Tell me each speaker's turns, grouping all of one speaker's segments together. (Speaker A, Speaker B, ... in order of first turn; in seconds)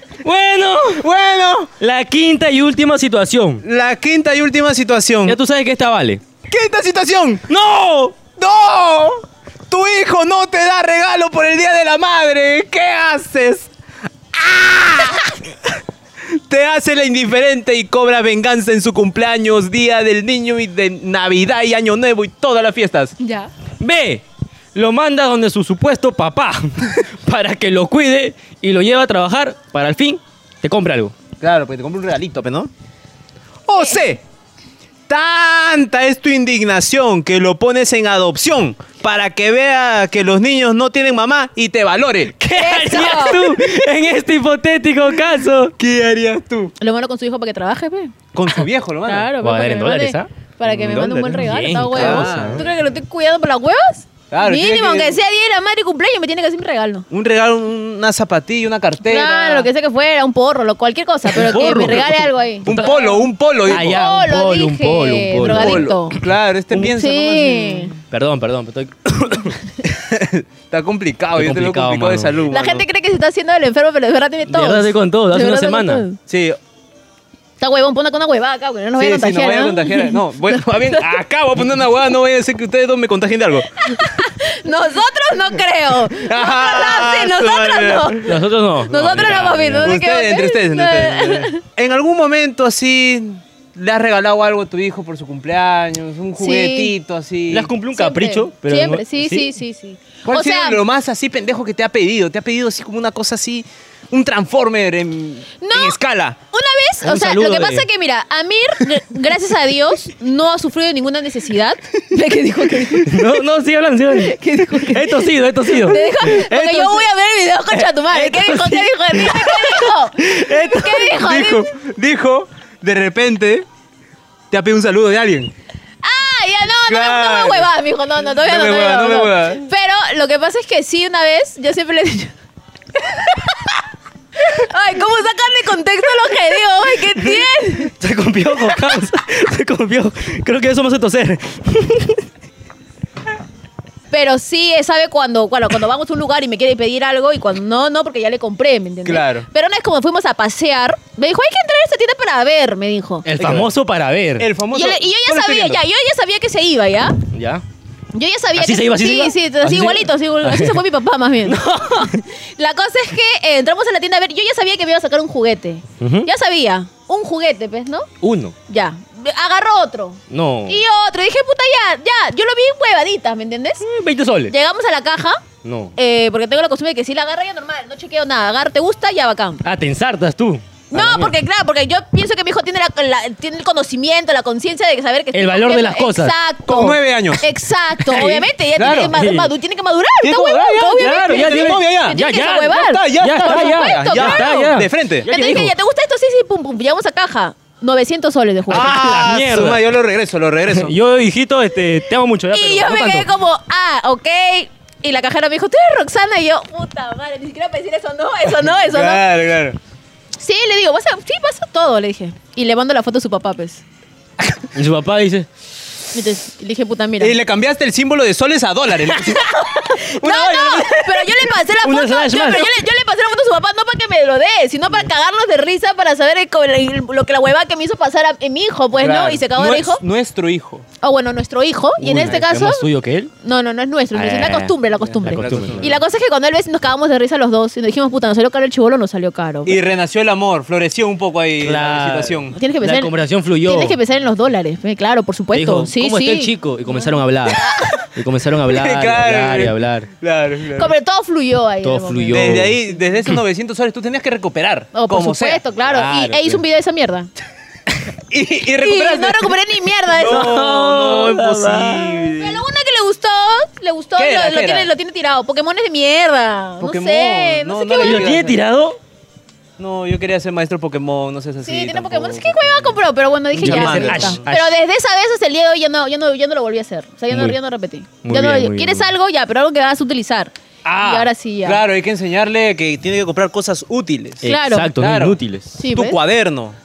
Speaker A: 0.2-1.1, 1.8-3.6, 5.2-6.2, 7.5-8.2, 23.8-24.2, 24.7-31.1, 42.4-45.7, 49.4-50.3, 50.8-52.6, 61.3-66.2, 68.1-69.6, 71.4-72.4, 74.5-76.0, 88.2-90.0, 97.5-99.5, 107.0-107.8, 113.0-116.7, 137.4-142.2, 153.2-154.5, 157.3-157.6, 158.6-160.8, 161.4-162.2, 166.0-166.3, 168.2-168.5, 170.3-170.8, 173.8-174.5, 175.6-175.9, 179.6-181.3, 185.3-186.3, 188.1-188.4, 189.1-189.5, 191.0-195.7, 198.7-199.8, 200.7-203.3, 214.7-215.5, 220.3-222.7, 232.0-233.3, 234.1-235.9, 241.6-244.0, 245.5-250.1, 251.8-252.8, 255.8-256.6, 260.2-262.2, 268.0-269.0, 273.6-274.7, 277.3-277.6, 278.2-279.1, 284.4-285.7
Speaker B: 1.0-1.7, 3.6-5.4, 6.5-7.5, 8.3-13.7, 14.3-15.7, 16.3-23.1, 31.4-32.7, 33.7-34.2, 35.1-42.4, 45.8-46.7, 48.3-49.3, 50.6-52.7, 54.3-55.2, 57.1-59.7, 62.6-64.0, 65.4-68.0, 69.8-72.8, 76.3-76.6, 79.0-83.9, 86.1-88.3, 89.8-97.7, 100.2-106.4, 116.2-117.0, 118.2-118.7, 120.2-123.7, 124.5-125.5, 126.9-127.7, 128.3-129.6, 149.0-149.5, 153.4-153.7, 154.4-155.8, 186.7-187.4, 188.1-189.2, 190.2-192.2, 192.7-195.3, 198.7-200.9, 208.8-209.8, 217.2-219.6, 220.2-221.0, 228.9-230.8, 235.0-236.0, 239.6-242.6, 248.7-250.9, 252.3-255.6, 258.3-259.6, 260.1-262.6, 264.2-264.9, 266.8-268.6, 269.8-272.9, 273.5-274.4, 280.9-286.8
Speaker C: 23.2-23.5, 42.5-43.5, 46.8-48.1, 49.0-57.1, 59.0-66.2, 66.8-67.9, 72.5-76.2, 77.6-81.1, 83.8-91.6, 96.4-96.9, 97.9-100.8, 105.6-106.0, 106.5-113.3, 114.1-121.7, 126.0-132.3, 133.1-133.5, 134.4-137.9, 144.1-153.2, 154.7-157.2, 158.1-168.1, 168.7-173.8, 174.5-175.4, 175.9-179.6, 180.9-194.7, 195.3-199.1, 202.5-209.2, 210.4-213.8, 216.1-217.4, 219.4-230.0, 231.0-232.8, 233.4-239.8, 242.5-248.1, 250.7-252.7, 254.9-257.3, 258.7-260.6, 262.3-268.4, 271.6-281.8, 284.4-284.9, 285.8-286.2